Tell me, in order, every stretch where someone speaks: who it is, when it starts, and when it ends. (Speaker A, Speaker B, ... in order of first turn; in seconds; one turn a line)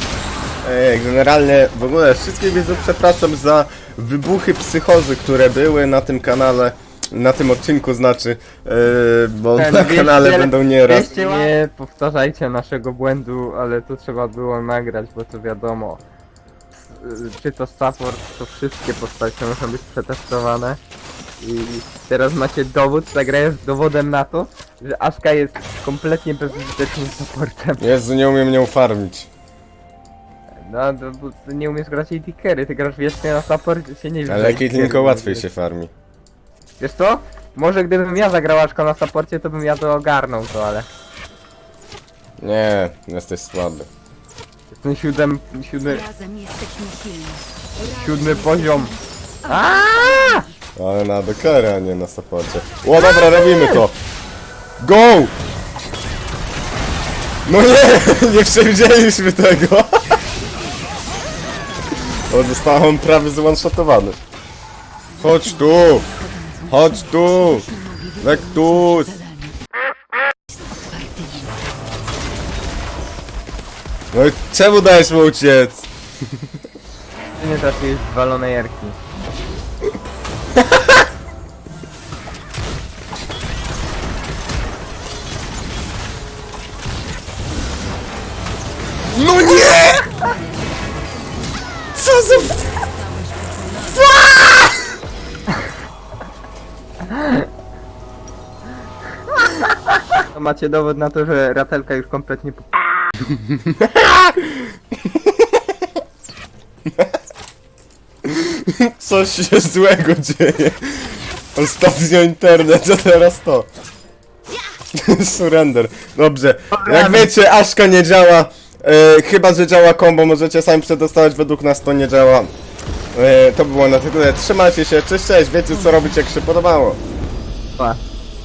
Speaker A: 0.6-11.5
Speaker B: 9.6-16.0
Speaker B: 16.7-20.8
Speaker B: 21.4-27.8
Speaker A: 27.8-29.3
Speaker B: 30.6-35.5
Speaker A: 34.3-35.9
Speaker B: 36.8-40.9
Speaker A: 42.4-43.9
Speaker B: 44.7-46.0
Speaker C: 45.8-50.6
Speaker B: 47.9-48.9
Speaker B: 49.5-50.4
Speaker A: 50.8-54.0
Speaker A: 54.8-55.3
Speaker A: 57.5-60.2
Speaker C: 60.6-62.7
Speaker A: 62.3-64.2
Speaker C: 65.1-69.6
Speaker A: 65.2-66.1
Speaker A: 66.7-67.7
Speaker A: 68.2-69.2
Speaker C: 70.5-71.8
Speaker A: 74.1-75.9
Speaker B: 77.4-79.0
Speaker A: 89.1-90.1
Speaker A: 92.0-92.5
Speaker C: 93.3-94.0
Speaker A: 94.0-94.3
Speaker B: 97.1-97.5
Speaker B: 99.3-102.9
Speaker A: 103.5-105.6
Speaker A: 108.2-113.7
Speaker A: 114.9-122.5
Speaker B: 116.7-117.3
Speaker A: 123.1-127.0
Speaker B: 127.8-128.0